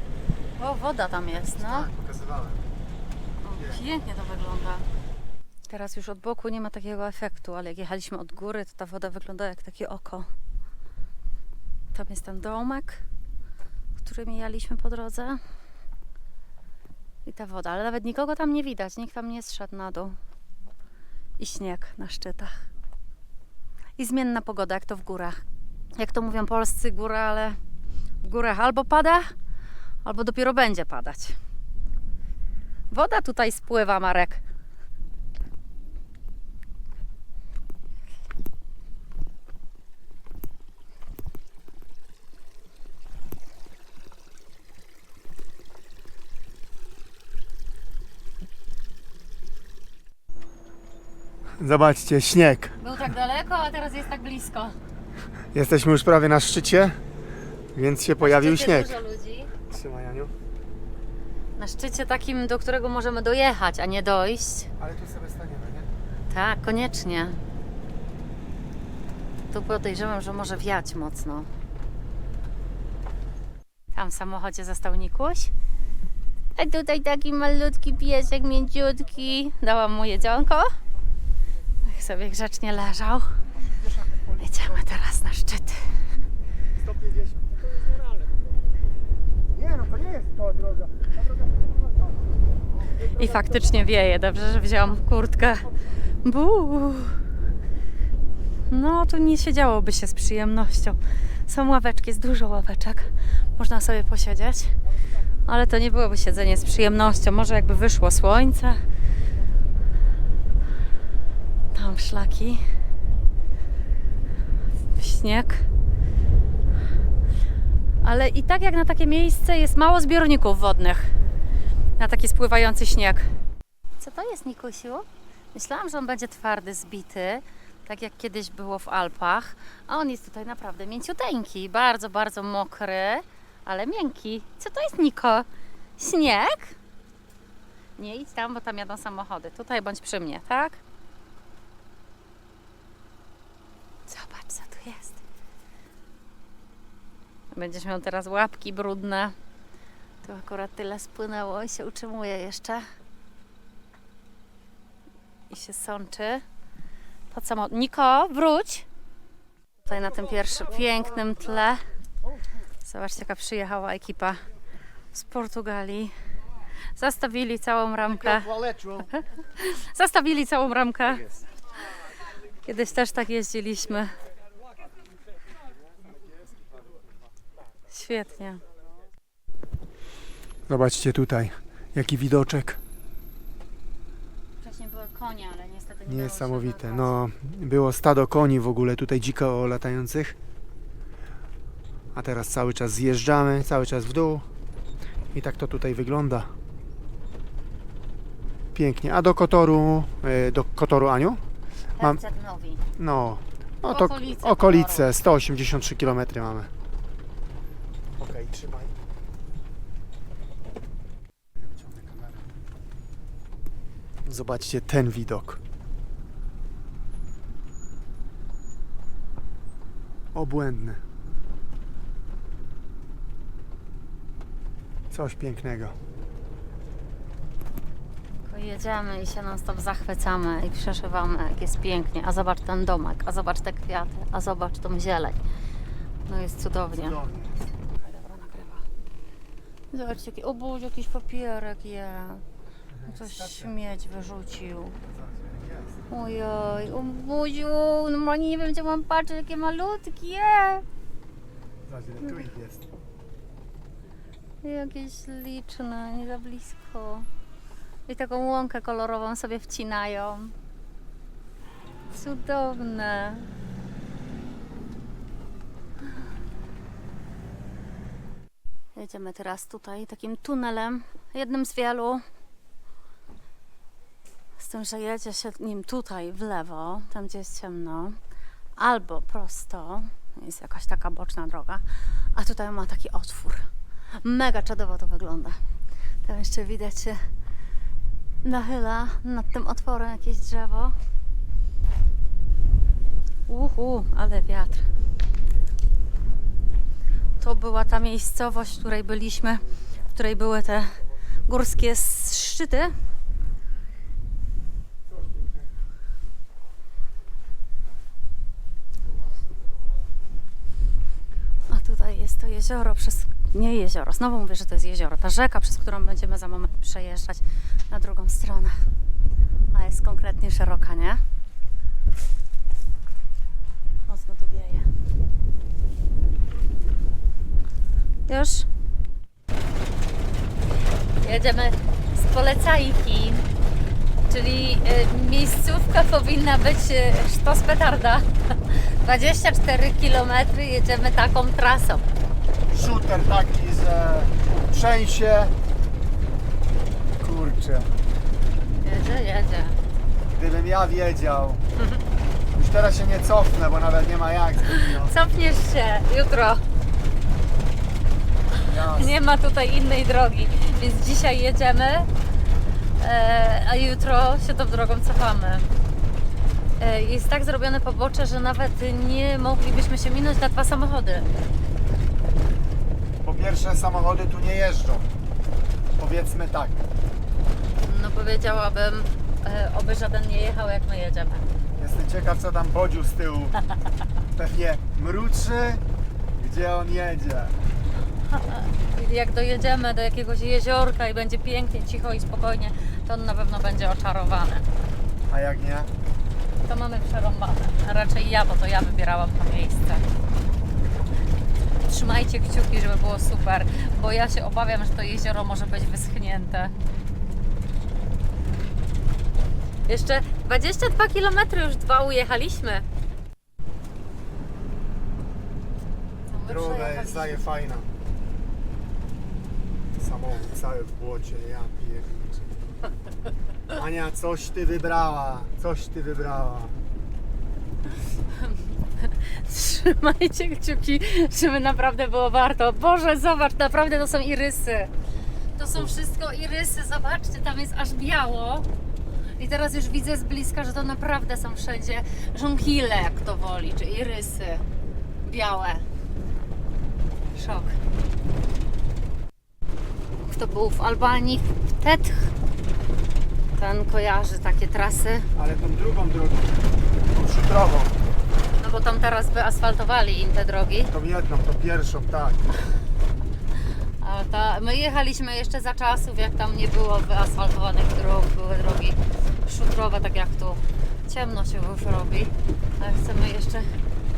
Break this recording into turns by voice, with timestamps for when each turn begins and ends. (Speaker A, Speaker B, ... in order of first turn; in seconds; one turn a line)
Speaker A: 0.6-1.9
Speaker B: 1.5-2.7
Speaker A: 3.4-4.9
Speaker B: 3.5-3.9
Speaker A: 5.7-10.3
Speaker A: 11.9-13.0
Speaker A: 14.0-15.4
Speaker A: 17.2-20.2
Speaker A: 21.4-22.6
Speaker A: 24.0-25.4
Speaker A: 26.0-27.6
Speaker A: 28.2-29.3
Speaker A: 30.1-31.4
Speaker A: 32.9-34.4
Speaker B: 51.6-52.8
Speaker A: 52.8-54.8
Speaker B: 55.5-57.0
Speaker B: 57.8-59.0
Speaker A: 58.2-59.5
Speaker B: 59.7-60.3
Speaker A: 61.6-64.7
Speaker B: 64.8-65.9
Speaker A: 66.3-67.4
Speaker A: 69.5-71.5
Speaker A: 73.9-75.5
Speaker A: 76.6-80.7
Speaker A: 81.9-83.3
Speaker B: 83.6-84.8
Speaker A: 84.4-86.0
Speaker B: 86.8-87.8
Speaker B: 89.5-92.2
Speaker A: 93.0-95.7
Speaker A: 96.2-97.2
Speaker A: 98.7-104.8
Speaker A: 105.5-108.8
Speaker A: 111.7-112.6
Speaker A: 114.9-115.7
Speaker A: 118.0-121.1
Speaker A: 122.0-123.3
Speaker A: 124.0-135.5
Speaker A: 136.0-136.8
Speaker A: 138.0-140.8
Speaker A: 144.1-145.2
Speaker A: 147.5-149.3
Speaker A: 150.2-152.9
Speaker A: 155.5-156.4
Speaker A: 157.3-158.9
Speaker A: 159.8-161.8
Speaker A: 162.8-164.4
Speaker A: 165.1-166.1
Speaker A: 167.0-171.4
Speaker B: 168.2-168.9
Speaker A: 172.6-174.1
Speaker A: 177.9-178.6
Speaker B: 180.7-182.8
Speaker A: 184.6-187.2
Speaker B: 186.1-190.4
Speaker B: 192.1-194.5
Speaker B: 195.3-196.5
Speaker B: 198.7-201.4
Speaker A: 202.0-202.8
Speaker B: 203.0-206.7
Speaker A: 203.8-205.1
Speaker B: 208.2-209.0
Speaker B: 211.6-212.5
Speaker B: 214.2-215.6
Speaker B: 220.3-221.0
Speaker B: 225.1-225.9
Speaker A: 228.5-235.4
Speaker A: 236.3-237.2
Speaker B: 236.9-237.7
Speaker A: 237.9-238.8
Speaker A: 239.9-242.4
Speaker B: 242.9-243.8
Speaker A: 243.1-245.0
Speaker B: 245.1-246.0
Speaker A: 246.1-250.8
Speaker B: 251.9-252.9
Speaker A: 254.6-257.3
Speaker A: 258.1-260.6
Speaker A: 262.1-263.5
Speaker A: 268.9-272.2
Speaker A: 274.6-278.2
Speaker A: 278.8-281.8
Speaker A: 282.3-283.7
Speaker A: 284.2-285.6
Speaker A: 286.2-287.3
Speaker A: 288.4-290.9
Speaker A: 293.5-294.9
Speaker A: 297.4-302.9
Speaker A: 311.7-318.8
Speaker A: 319.7-321.2
Speaker A: 324.1-324.9
Speaker A: 328.3-328.7
Speaker A: 331.2-333.5
Speaker A: 334.3-342.1
Speaker B: 342.7-345.6
Speaker B: 347.2-347.9
Speaker A: 348.8-349.8
Speaker B: 350.3-351.6
Speaker B: 352.5-355.1
Speaker A: 354.7-356.6
Speaker B: 358.7-359.1
Speaker A: 358.9-362.1
Speaker A: 363.0-365.7
Speaker A: 366.8-371.3
Speaker B: 373.2-375.1
Speaker B: 376.0-376.9
Speaker A: 377.8-381.5
Speaker B: 381.8-383.6
Speaker B: 384.3-385.8
Speaker B: 386.4-387.6
Speaker A: 388.3-394.7
Speaker B: 395.3-395.9
Speaker A: 396.6-400.0
Speaker A: 401.9-406.8
Speaker A: 409.9-412.9
Speaker A: 416.3-417.5
Speaker B: 416.4-417.9
Speaker B: 420.0-422.4
Speaker B: 423.7-426.8
Speaker A: 428.3-434.9
Speaker A: 435.6-438.7
Speaker B: 435.6-435.9
Speaker A: 439.4-444.6
Speaker A: 445.2-445.9
Speaker A: 447.3-447.8
Speaker A: 450.2-452.3
Speaker A: 453.6-455.3
Speaker B: 455.4-458.0
Speaker A: 458.6-460.9
Speaker B: 460.9-462.4
Speaker A: 464.0-473.7